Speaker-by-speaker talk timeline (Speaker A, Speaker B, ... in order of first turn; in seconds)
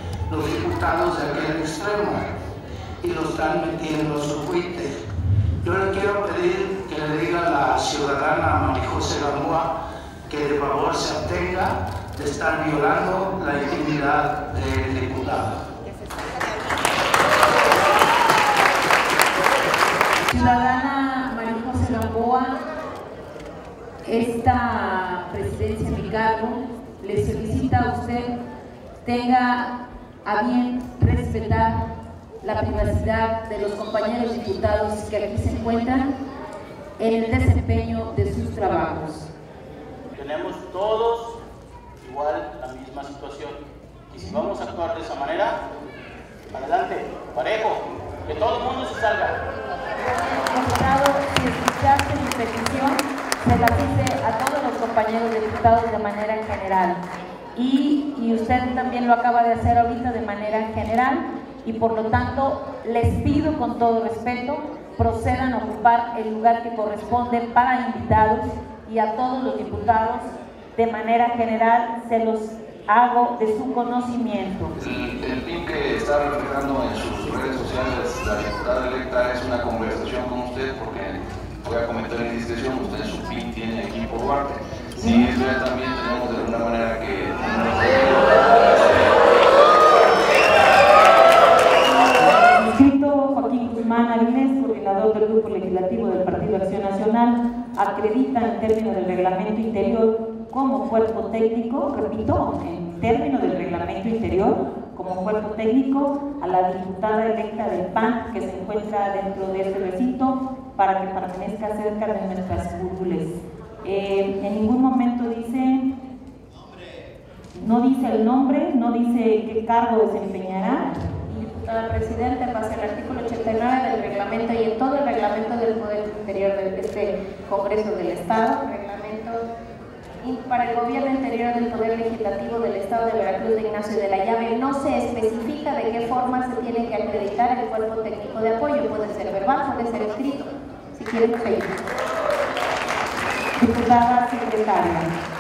Speaker A: 0.3-2.3, 3.0-4.9, 5.6-9.7, 10.3-15.6
Speaker B: 20.2-22.5, 24.1-28.3, 29.1-29.7, 30.2-31.8, 32.4-36.1, 37.0-39.3, 50.5-57.0, 57.6-74.7, 92.5-115.9, 117.5-121.0, 143.6-145.1
Speaker C: 40.1-41.4, 42.0-43.6, 44.1-45.6, 46.5-49.4
Speaker D: 74.8-90.8
Speaker E: 121.3-129.4, 130.2-141.8